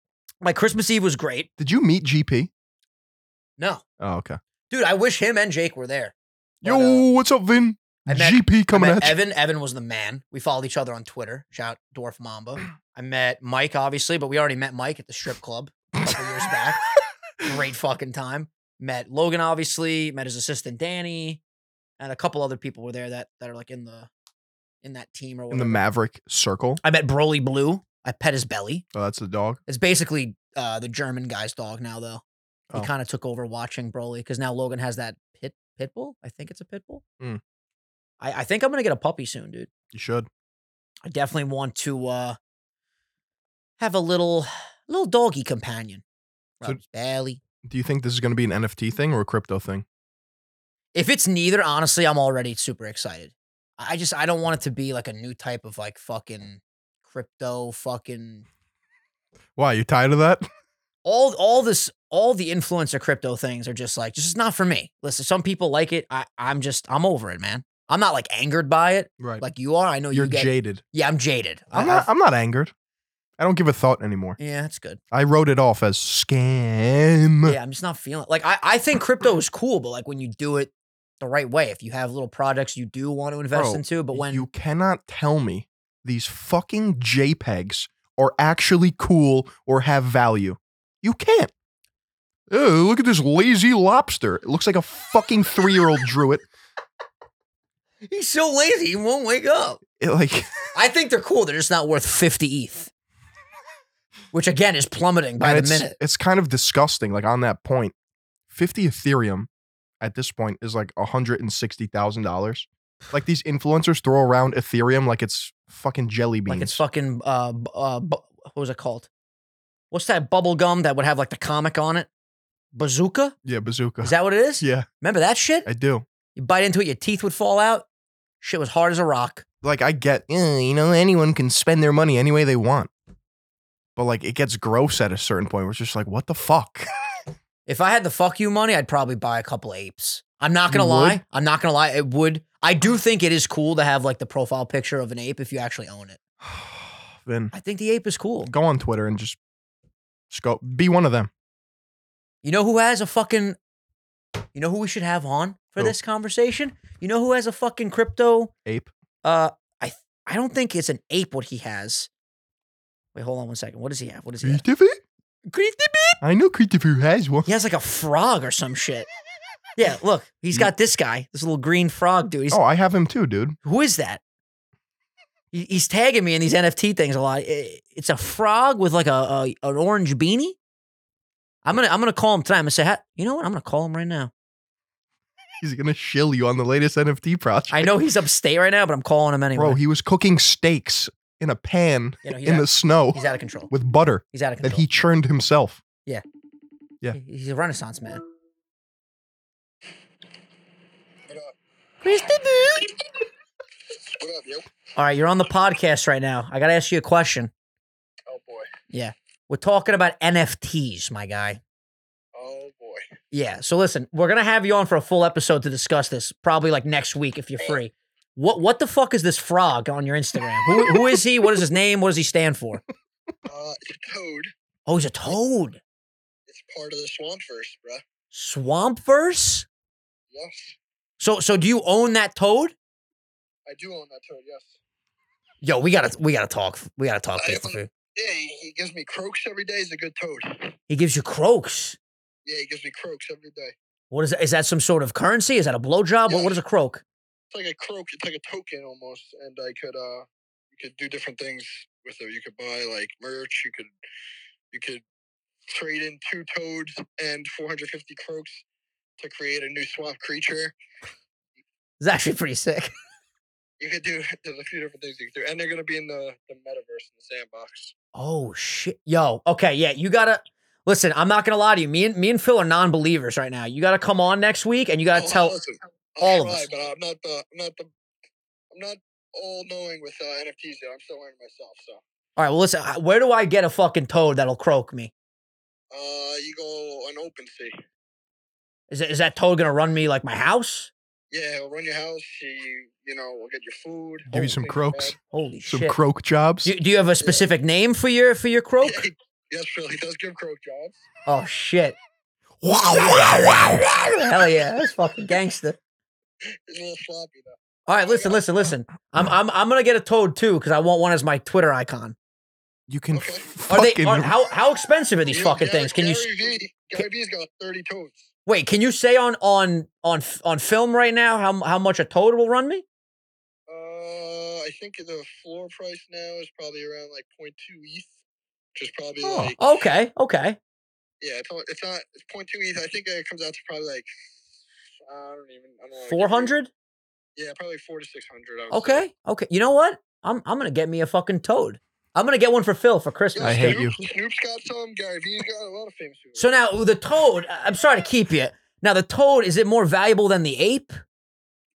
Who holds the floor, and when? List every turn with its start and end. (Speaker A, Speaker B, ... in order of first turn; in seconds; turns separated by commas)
Speaker A: 0.4-1.5, Speaker B: 1.6-2.5, Speaker A: 3.6-3.8, Speaker B: 4.0-4.4, Speaker A: 4.7-7.0, Speaker B: 6.6-9.2, Speaker A: 8.1-16.8, Speaker A: 17.4-21.4, Speaker A: 22.0-24.1, Speaker A: 24.8-25.8, Speaker B: 25.5-26.8, Speaker A: 26.8-28.8, Speaker B: 28.9-29.6, Speaker A: 29.7-37.0, Speaker A: 38.2-39.7, Speaker B: 39.9-40.3, Speaker A: 41.0-42.4, Speaker A: 43.8-46.0, Speaker A: 46.6-47.4, Speaker B: 47.6-49.8, Speaker A: 50.9-58.4, Speaker B: 59.5-60.5, Speaker A: 61.0-72.1, Speaker B: 70.1-70.8, Speaker B: 71.7-72.7, Speaker B: 73.4-74.4, Speaker A: 74.4-75.0, Speaker B: 75.1-77.6, Speaker A: 77.4-84.5, Speaker B: 83.5-91.5, Speaker B: 92.5-96.4, Speaker A: 98.1-99.8, Speaker B: 100.0-100.5, Speaker A: 100.7-102.9, Speaker A: 104.3-105.9, Speaker B: 105.4-107.9, Speaker B: 108.5-109.5, Speaker B: 110.0-116.8, Speaker A: 116.5-119.1, Speaker A: 119.9-122.1, Speaker A: 122.7-123.3, Speaker B: 123.4-124.9, Speaker A: 124.0-125.7, Speaker B: 125.7-126.0, Speaker A: 126.3-127.8, Speaker A: 128.4-129.4, Speaker B: 129.6-132.9, Speaker B: 133.9-136.9, Speaker A: 137.7-146.2, Speaker B: 140.7-141.2, Speaker B: 146.4-147.5, Speaker A: 147.5-148.5, Speaker B: 148.4-149.4, Speaker B: 150.3-151.3, Speaker A: 152.4-153.6, Speaker A: 154.5-158.5, Speaker A: 159.2-162.1, Speaker A: 163.1-164.6, Speaker B: 164.4-165.0, Speaker A: 165.5-166.2, Speaker B: 166.2-167.5, Speaker A: 167.4-169.1, Speaker A: 169.8-172.6, Speaker B: 172.5-173.6, Speaker A: 173.6-174.2, Speaker A: 175.5-180.6, Speaker A: 181.6-184.3, Speaker B: 185.6-187.9, Speaker A: 187.7-189.8, Speaker B: 189.6-195.8, Speaker A: 192.2-193.7, Speaker A: 194.3-194.8, Speaker A: 197.1-198.2, Speaker C: 201.3-201.5, Speaker A: 202.0-202.9, Speaker C: 203.9-204.7, Speaker A: 204.9-207.5, Speaker C: 208.3-208.7, Speaker A: 208.9-211.6, Speaker C: 212.3-213.0, Speaker A: 213.3-222.8, Speaker B: 220.8-221.2, Speaker C: 223.4-224.5, Speaker A: 224.9-225.8, Speaker C: 226.5-228.0, Speaker A: 228.3-229.7, Speaker C: 230.3-230.8, Speaker A: 231.2-232.7, Speaker C: 233.7-234.8, Speaker A: 235.6-237.9, Speaker C: 237.4-240.7, Speaker A: 240.9-242.0, Speaker C: 242.4-243.7, Speaker A: 244.1-247.0, Speaker C: 246.3-246.6, Speaker C: 247.5-253.9, Speaker C: 254.7-255.0, Speaker C: 255.7-258.6, Speaker C: 259.2-260.7, Speaker A: 262.0-262.9, Speaker C: 263.8-267.9, Speaker A: 268.1-275.6, Speaker C: 275.1-277.9, Speaker A: 276.2-276.7, Speaker C: 278.7-282.0, Speaker A: 282.4-285.1, Speaker C: 285.9-287.8, Speaker A: 288.9-290.9, Speaker C: 291.3-295.2, Speaker B: 294.3-295.1, Speaker A: 294.3-294.6, Speaker A: 295.3-296.0, Speaker B: 295.6-296.7, Speaker A: 296.6-299.0, Speaker C: 298.8-301.0, Speaker A: 301.2-301.9, Speaker B: 302.6-303.9, Speaker A: 302.6-305.8, Speaker C: 306.7-308.4, Speaker A: 307.9-312.1, Speaker B: 312.9-314.3, Speaker C: 313.1-313.5, Speaker A: 313.7-316.3, Speaker C: 315.3-318.3, Speaker A: 318.4-322.8, Speaker C: 323.7-328.2, Speaker C: 328.8-329.6, Speaker A: 329.2-330.6, Speaker C: 331.2-336.5, Speaker A: 336.0-336.7, Speaker C: 337.4-339.0, Speaker A: 338.7-343.8, Speaker C: 343.3-346.5, Speaker B: 343.4-344.0, Speaker A: 346.4-351.0